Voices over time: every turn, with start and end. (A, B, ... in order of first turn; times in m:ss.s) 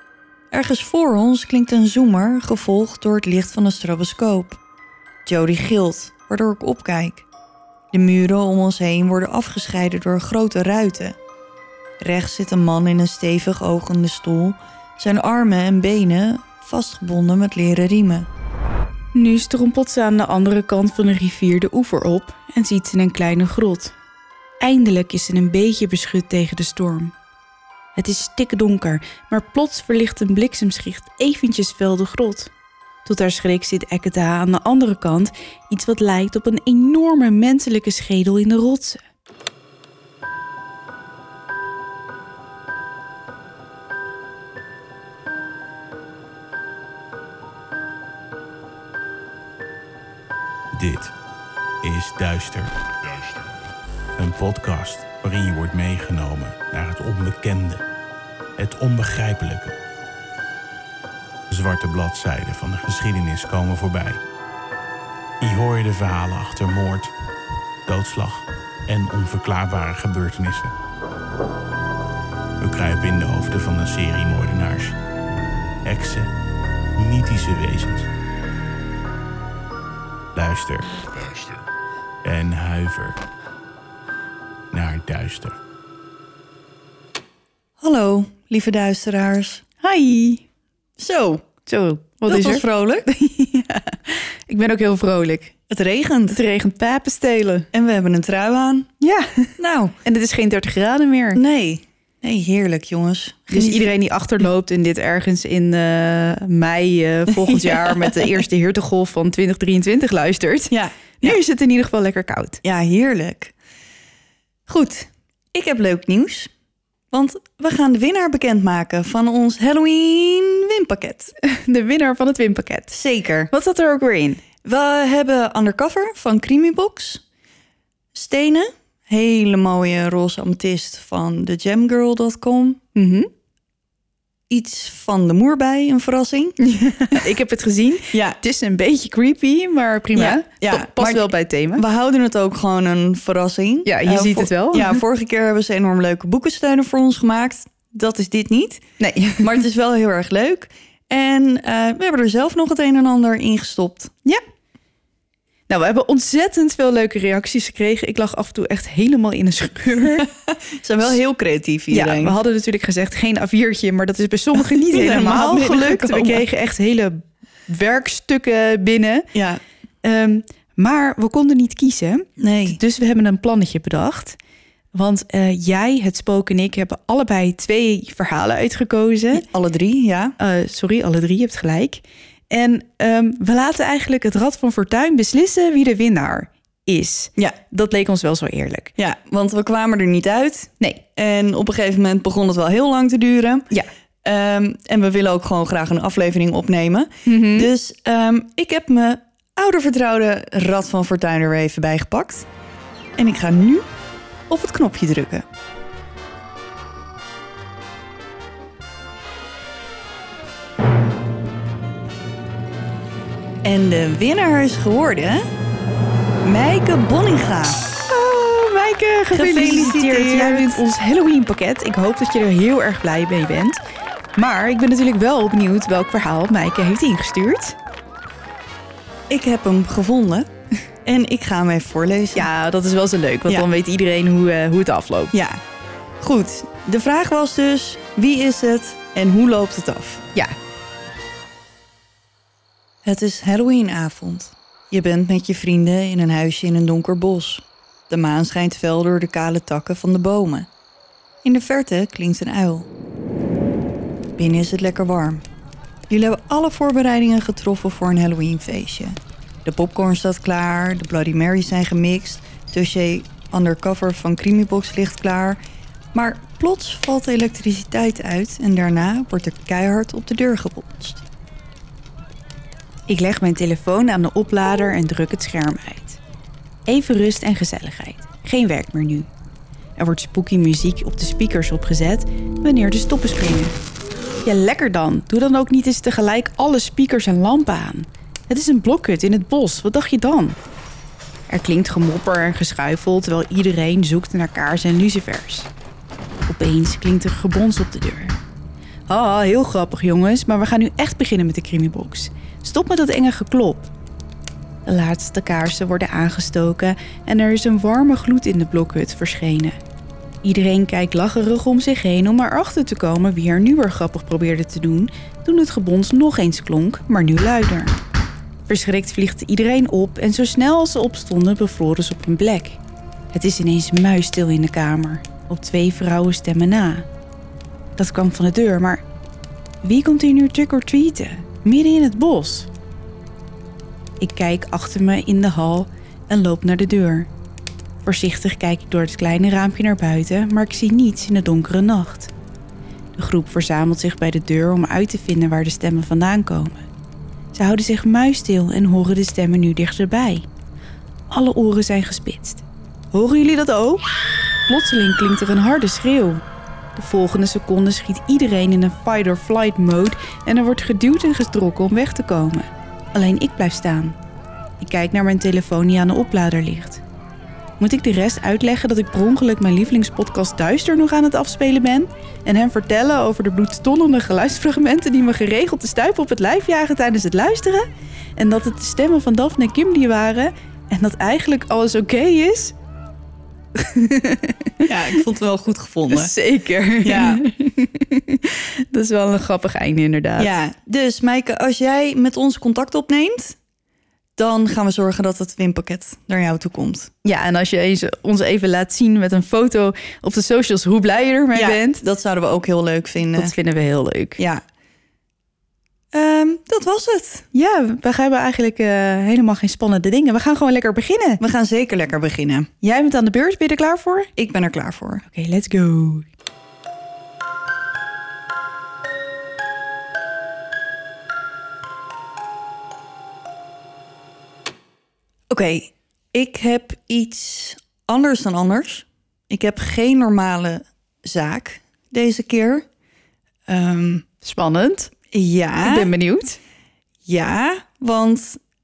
0:00.5-0:04.6 A
0:05.2-0:07.3 A
0:07.9-0:11.2 A
0:12.0-0:18.3 A
0:19.1-0:24.0 B
0:24.6-0:27.2 B
0:28.0-0:32.5 B
0:33.0-0:39.0 B
0:50.7-0:51.2 C
0:51.8-0:53.5 C
0:54.2-0:57.8 C
0:58.6-0:59.8 C
1:01.5-1:04.2 C
1:05.4-1:07.1 C
1:07.9-1:10.8 C
1:12.6-1:15.0 C
1:15.8-1:16.3 C
1:17.0-1:18.1 C
1:20.3-1:21.6 C
1:22.2-1:23.2 C
1:24.7-1:25.6 C
1:27.8-1:29.6 A
1:29.8-1:30.4 B
1:31.0-1:31.5 A
1:31.7-1:35.6 B
1:32.3-1:33.1 A
1:35.7-1:36.4 A
1:36.3-1:37.7 B
1:37.7-1:38.9 A
1:39.0-1:41.4 B
1:39.6-1:40.0 A
1:41.4-1:43.9 A
1:43.5-1:52.6 B
1:47.3-1:48.3 A
1:50.7-1:51.4 A
1:52.6-1:53.5 A
1:54.7-1:56.5 A
1:57.1-2:01.3 A
2:01.4-2:03.0 B
2:02.9-2:03.5 A
2:03.5-2:04.4 B
2:04.6-2:07.2 A
2:08.1-2:12.8 A
2:13.0-2:13.3 B
2:14.5-2:17.2 A
2:16.6-2:21.8 B
2:18.1-2:18.4 A
2:20.2-2:28.8 A
2:23.8-2:25.0 B
2:29.0-2:29.6 B
2:29.4-2:34.1 A
2:35.7-2:40.3 B
2:40.3-2:42.4 A
2:41.9-2:49.3 B
2:44.9-2:46.4 A
2:49.3-2:49.6 A
2:50.0-2:54.4 B
2:52.4-2:52.8 A
2:54.9-2:59.4 B
2:59.3-3:00.4 A
3:00.4-3:08.9 B
3:09.0-3:13.7 A
3:14.2-3:22.5 A
3:17.3-3:17.7 B
3:23.2-3:23.9 A
3:24.5-3:25.4 A
3:33.6-3:35.5 A
3:36.4-3:37.9 A
3:38.1-3:43.8 B
3:39.3-3:40.8 A
3:44.4-3:47.8 B
3:49.3-3:50.5 A
3:51.0-3:52.5 A
3:52.3-3:55.3 B
3:55.3-3:55.6 A
3:56.2-4:00.2 A
4:03.0-4:10.7 A
4:11.4-4:12.9 A
4:14.4-4:15.4 A
4:16.1-4:25.6 A
4:26.1-4:31.2 A
4:33.1-4:36.2 B
4:36.9-4:39.3 B
4:40.0-4:43.8 B
4:44.4-4:50.6 B
4:51.5-4:55.7 B
4:56.5-4:58.4 B
4:59.1-5:03.9 B
5:04.8-5:09.8 B
5:10.4-5:18.0 B
5:18.7-5:22.8 B
5:23.3-5:27.1 B
5:28.0-5:29.0 B
5:29.8-5:32.7 B
5:34.2-5:37.3 B
5:38.0-5:42.3 B
5:43.2-5:46.9 B
5:47.5-5:50.5 B
5:51.3-5:54.1 B
5:54.7-5:56.4 B
5:57.0-6:04.2 B
6:04.8-6:07.0 B
6:07.8-6:22.8 B
6:23.8-6:25.2 B
6:24.8-6:26.3 A
6:26.1-6:30.5 B
6:27.0-6:27.4 A
6:30.4-6:33.6 A
6:34.4-6:37.1 A
6:37.2-6:42.0 B
6:41.5-6:43.5 A
6:43.4-6:44.4 B
6:44.4-6:44.6 A
6:46.1-6:47.5 A
6:47.5-6:51.4 B
6:51.4-6:52.7 A
6:52.8-6:54.3 B
6:54.4-6:55.3 A
6:55.3-6:56.3 B
7:05.5-7:12.9 A
7:13.7-7:14.3 A
7:14.4-7:15.1 B
7:15.3-7:16.1 A
7:15.8-7:16.6 B
7:17.3-7:18.6 A